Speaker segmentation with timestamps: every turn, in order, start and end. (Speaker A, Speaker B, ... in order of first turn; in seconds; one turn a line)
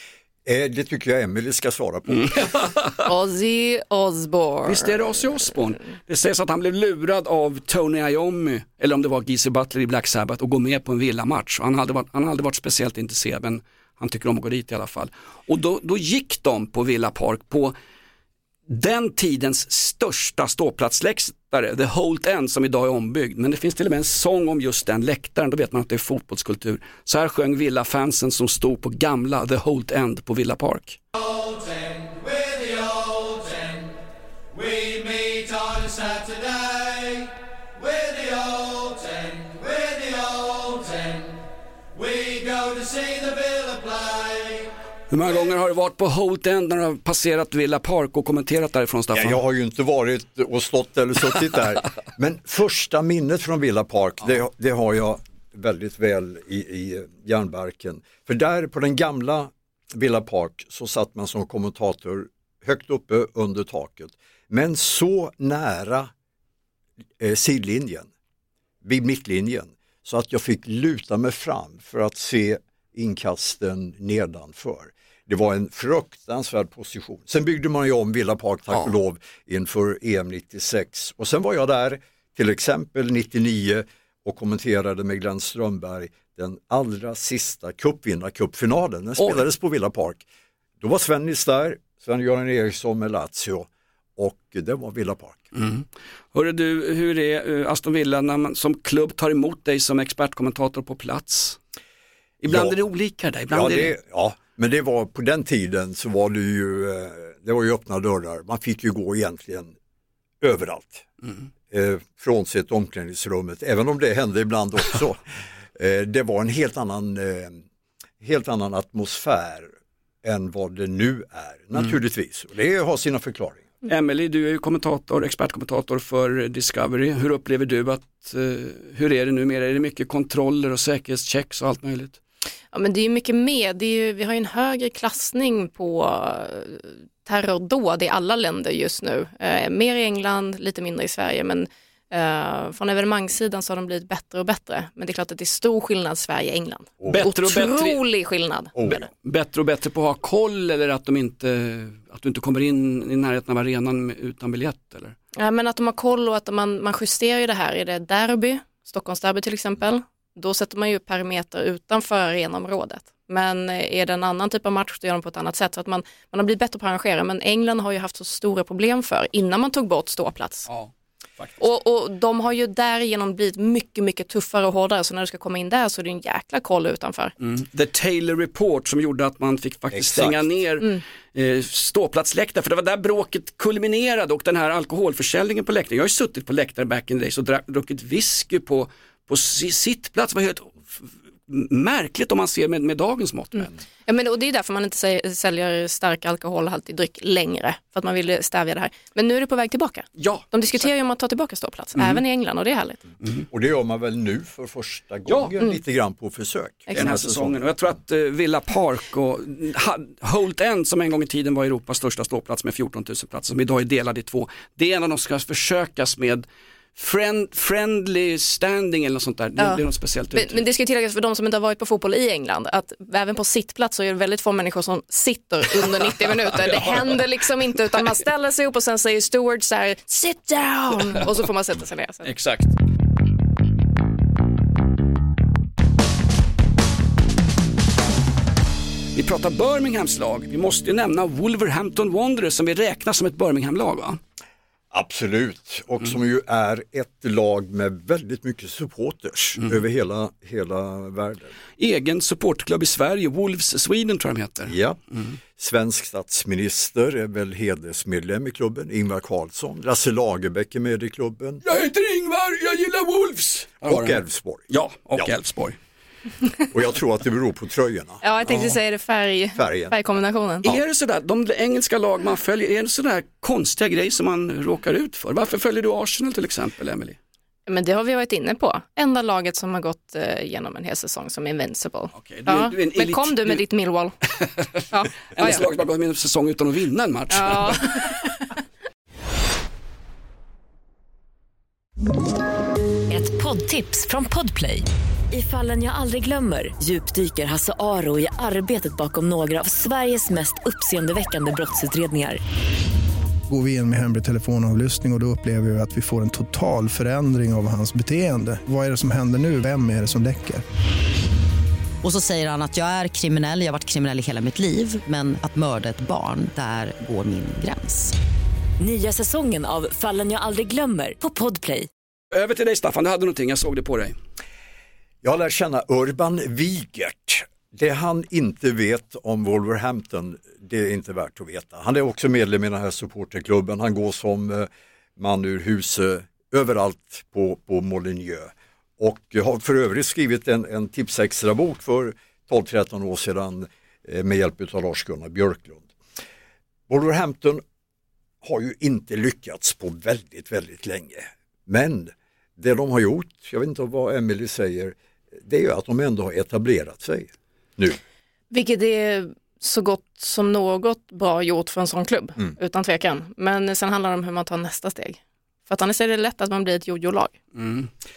Speaker A: 0.4-2.4
Speaker B: 2.1-3.1
Speaker C: 3.0-5.2
Speaker B: 4.6-17.7
Speaker B: 18.7-31.0
Speaker B: 32.4-33.6
Speaker B: 34.6-36.6
Speaker B: 38.0-40.6
Speaker B: 42.1-43.8
Speaker B: 45.1-49.4
Speaker A: 49.1-66.1
Speaker A: 67.2-68.1
Speaker A: 68.8-90.2
Speaker B: 89.2-89.4
Speaker A: 90.8-95.5
Speaker B: 95.5-101.6
Speaker B: 102.4-103.9
Speaker A: 102.5-102.8
Speaker A: 103.5-109.7
Speaker A: 110.4-111.0
Speaker A: 111.7-115.2
Speaker A: 115.7-117.6
Speaker A: 118.2-119.7
Speaker A: 120.2-123.7
Speaker B: 123.8-132.2
Speaker C: 132.7-149.0
Speaker A: 147.0-147.3
Speaker B: 147.1-148.0
Speaker A: 148.8-149.0
Speaker B: 148.9-155.1
Speaker C: 155.3-170.7
Speaker B: 170.7-171.7
Speaker C: 171.6-177.3
Speaker B: 177.4-193.7
Speaker A: 179.9-180.6
Speaker C: 193.6-203.0
Speaker B: 200.2-200.5
Speaker B: 201.9-202.2
Speaker A: 203.5-207.6
Speaker B: 205.2-205.6
Speaker B: 206.9-216.4
Speaker B: 216.9-220.6
Speaker C: 220.3-232.3
Speaker B: 226.4-227.2
Speaker B: 232.2-232.7
Speaker B: 239.1-244.2
Speaker A: 244.9-251.5
Speaker B: 251.8-255.3
Speaker A: 254.7-255.0
Speaker A: 255.6-261.6
Speaker B: 261.6-265.8
Speaker A: 263.8-265.3
Speaker A: 266.7-268.2
Speaker C: 268.2-270.6
Speaker A: 269.5-269.9
Speaker B: 270.6-277.2
Speaker C: 277.7-284.1
Speaker B: 282.1-283.6
Speaker B: 284.4-287.9
Speaker C: 284.9-285.6
Speaker C: 287.3-288.4
Speaker D: 293.1-302.4
Speaker E: 303.5-310.6
Speaker F: 312.0-318.1
Speaker D: 318.8-321.9
Speaker B: 322.3-324.1
Speaker A: 325.2-345.9
Speaker A: 346.9-347.6
Speaker A: 348.4-358.0
Speaker C: 358.5-367.3
Speaker B: 367.5-367.9